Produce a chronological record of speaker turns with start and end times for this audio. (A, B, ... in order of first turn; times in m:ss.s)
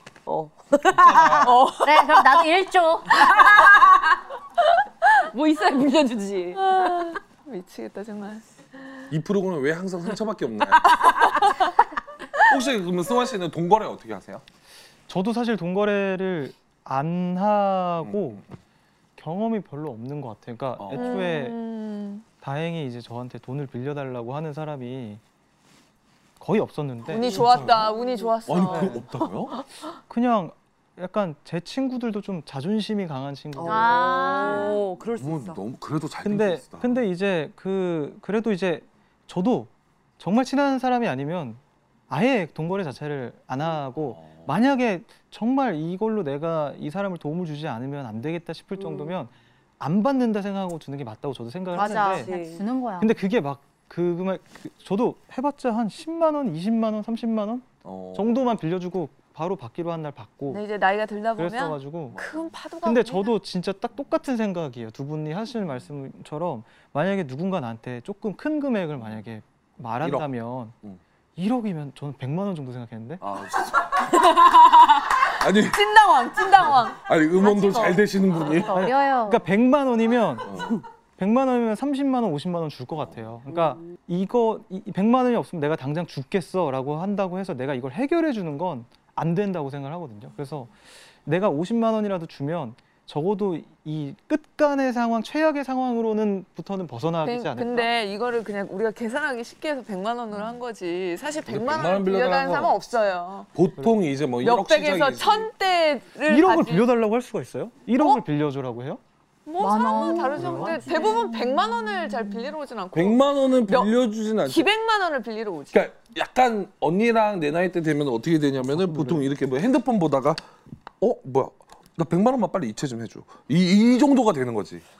0:00.3-0:01.5 A
0:00.9-0:01.6 B
0:01.4-0:02.4 C
0:01.8-0:03.3 D
0:03.1-0:04.2 A
0:05.2-0:07.1 A
0:06.6-0:08.4 C
0:09.1-0:11.4 B
0:11.4-0:11.7 C
0:12.4-0:14.4 B
0:15.1-0:18.4 E
0:18.0-0:18.5 B
0:19.2-0:21.6 E
0:20.8-0:21.2 B
0:21.0-0:22.2 C
0:22.4-0:25.2 E
0:26.4-0:27.9 E
0:27.1-0:29.2 C
0:28.5-0:29.6 B
0:28.7-0:29.1 E
0:30.1-0:34.4 E
0:33.6-0:35.6 A
0:33.7-0:34.8 D
0:35.2-0:36.9 B
0:36.2-0:52.3 E
0:44.1-0:44.5 B
0:48.8-0:49.1 A
0:51.7-0:53.1 D
0:51.8-0:52.6 A
0:53.0-1:00.6 E
0:57.8-0:58.4 B
1:00.5-1:03.4 C
1:01.4-1:02.2 E
1:02.1-1:02.5 B
1:02.8-1:10.8 E
1:10.0-1:10.3 B
1:11.4-1:13.2 E
1:13.2-1:15.8 B
1:15.6-1:18.6 C
1:17.0-1:18.9 B
1:18.7-1:19.4 D
1:18.7-1:20.6 E
1:20.5-1:20.8 B
1:21.2-1:30.7 E
1:31.2-1:37.9 E
1:37.2-1:43.5 C
1:41.5-1:42.8 B
1:43.5-1:45.5 B
1:44.4-1:46.8 C
1:46.3-1:49.0 E
1:49.5-1:55.8 C
1:49.6-1:51.3 D
1:50.4-1:50.9 E
1:52.9-1:54.7 B
1:55.7-2:00.4 B
1:58.7-1:59.3 E
2:01.0-2:04.8 B